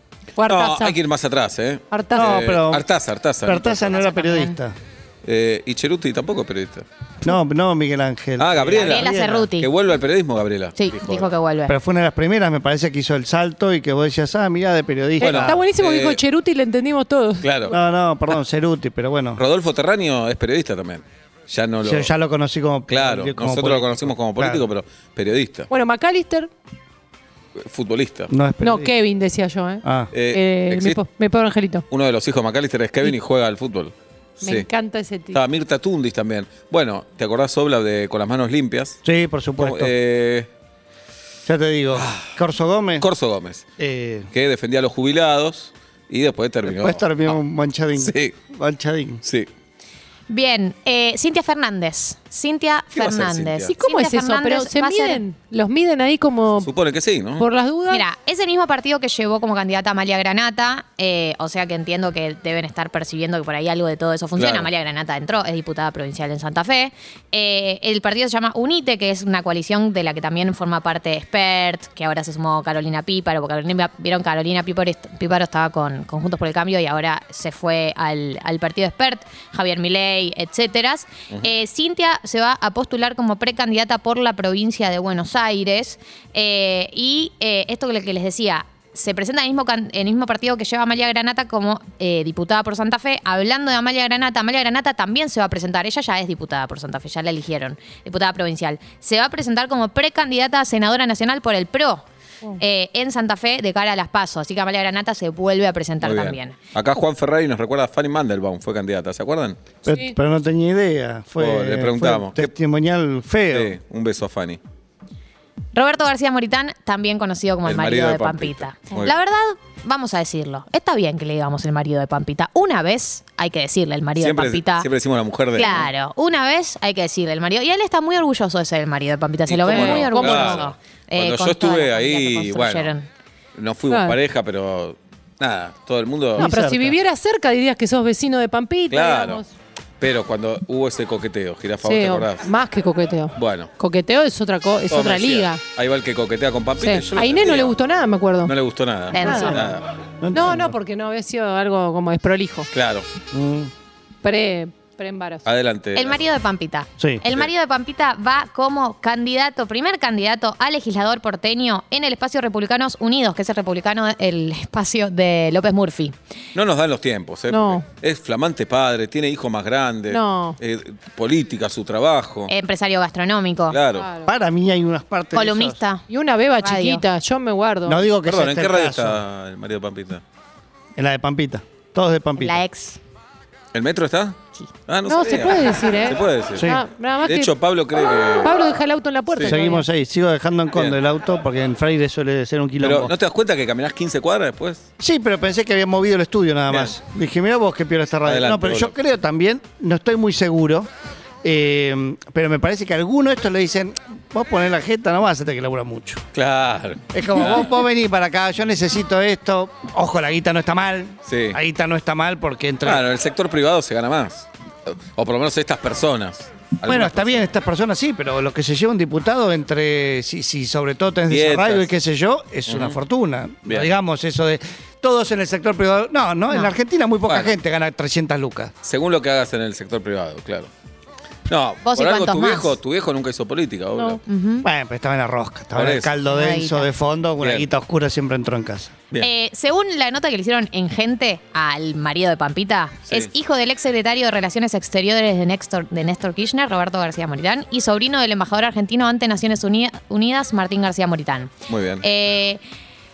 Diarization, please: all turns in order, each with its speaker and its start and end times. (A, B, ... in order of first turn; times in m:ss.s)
0:00.4-0:01.0 A
0:00.4-0:04.0 B
0:01.9-0:02.6 A
0:02.2-0:02.9 C
0:03.4-0:04.8 C
0:03.9-0:04.6 D
0:05.2-0:06.8 B
0:07.2-0:09.5 C
0:08.4-0:11.3 B
0:08.7-0:09.7 D
0:10.8-0:11.7 D
0:11.7-0:15.6 C
0:15.2-0:17.5 A
0:15.2-0:16.2 B
0:17.4-0:17.8 B
0:17.7-0:19.4 C
0:19.4-0:22.1 B
0:21.8-0:24.7 C
0:22.9-0:25.7 B
0:25.7-0:26.5 A
0:27.6-0:28.3 B
0:28.3-0:28.9 C
0:28.6-0:31.8 A
0:29.8-0:30.1 C
0:30.1-0:31.0 B
0:31.9-0:34.7 B
0:34.4-0:35.4 A
0:35.3-0:39.0 B
0:39.0-0:39.9 C
0:39.6-0:40.5 B
0:41.5-0:43.1 C
0:41.9-0:42.3 B
0:43.0-0:43.6 B
0:43.8-0:44.3 C
0:44.3-0:47.4 B
0:46.7-0:49.2 C
0:48.0-0:48.4 B
0:49.2-0:49.5 B
0:50.3-0:55.2 D
0:52.9-0:53.8 B
0:53.8-0:56.7 A
0:56.6-0:57.5 B
0:57.4-0:58.0 A
0:57.9-1:42.0 D
1:04.4-1:04.7 B
1:42.6-1:46.6 D
1:46.0-1:49.7 B
1:49.9-1:53.8 C
1:49.9-1:50.2 A
1:51.4-1:52.5 B
1:53.5-1:54.6 B
1:55.7-2:04.9 D
1:57.6-1:59.1 B
2:04.2-2:05.9 B
2:05.6-2:13.1 D
2:09.5-2:12.9 B
2:09.7-2:10.7 A
2:13.6-2:16.5 B
2:13.9-2:14.2 A
2:16.4-2:19.5 A
2:16.4-2:17.0 C
2:18.9-2:19.4 B
2:20.0-2:22.5 B
2:21.8-2:25.6 A
2:23.4-2:23.7 B
2:24.9-2:27.8 B
2:26.8-2:28.5 A
2:28.4-2:29.8 B
2:29.1-2:29.7 D
2:29.2-2:29.8 A
2:30.2-2:30.8 C
2:30.3-2:32.7 A
2:32.7-2:33.0 B
2:33.3-2:33.7 C
2:34.2-2:35.5 A
2:35.4-2:36.2 B
2:35.9-2:46.2 D
2:46.6-2:52.5 B
2:47.5-2:47.8 A
2:50.1-2:50.6 A
2:52.5-2:53.8 D
2:53.7-2:54.1 B
2:53.9-2:54.3 A
2:54.2-2:55.8 C
2:55.3-2:56.0 D
2:56.1-2:58.0 A
2:56.6-2:57.0 D
2:57.9-2:59.2 C
2:58.3-3:00.2 B
3:01.0-3:02.6 C
3:02.4-3:03.0 D
3:03.7-3:06.7 B
3:05.1-3:07.6 A
3:06.6-3:06.8 C
3:07.2-3:08.6 B
3:08.2-3:09.8 A
3:09.4-3:09.6 B
3:09.4-3:13.1 C
3:12.8-3:14.9 B
3:15.0-3:20.9 C
3:18.2-3:18.9 B
3:21.4-3:26.2 C
3:26.3-3:27.6 B
3:27.1-3:33.0 C
3:31.3-3:31.6 B
3:32.8-3:37.5 B
3:36.8-3:48.7 C
3:41.3-3:41.9 B
3:42.7-3:43.0 B
3:46.5-3:46.8 D
3:47.3-3:47.6 B
3:48.8-3:50.7 B
3:51.5-3:54.2 B
3:51.8-3:52.8 D
3:54.3-3:54.7 D
3:54.6-3:59.1 C
3:55.8-3:56.1 B
3:56.3-3:56.9 D
3:57.4-3:57.7 B
3:59.2-4:12.6 D
4:11.7-4:12.0 B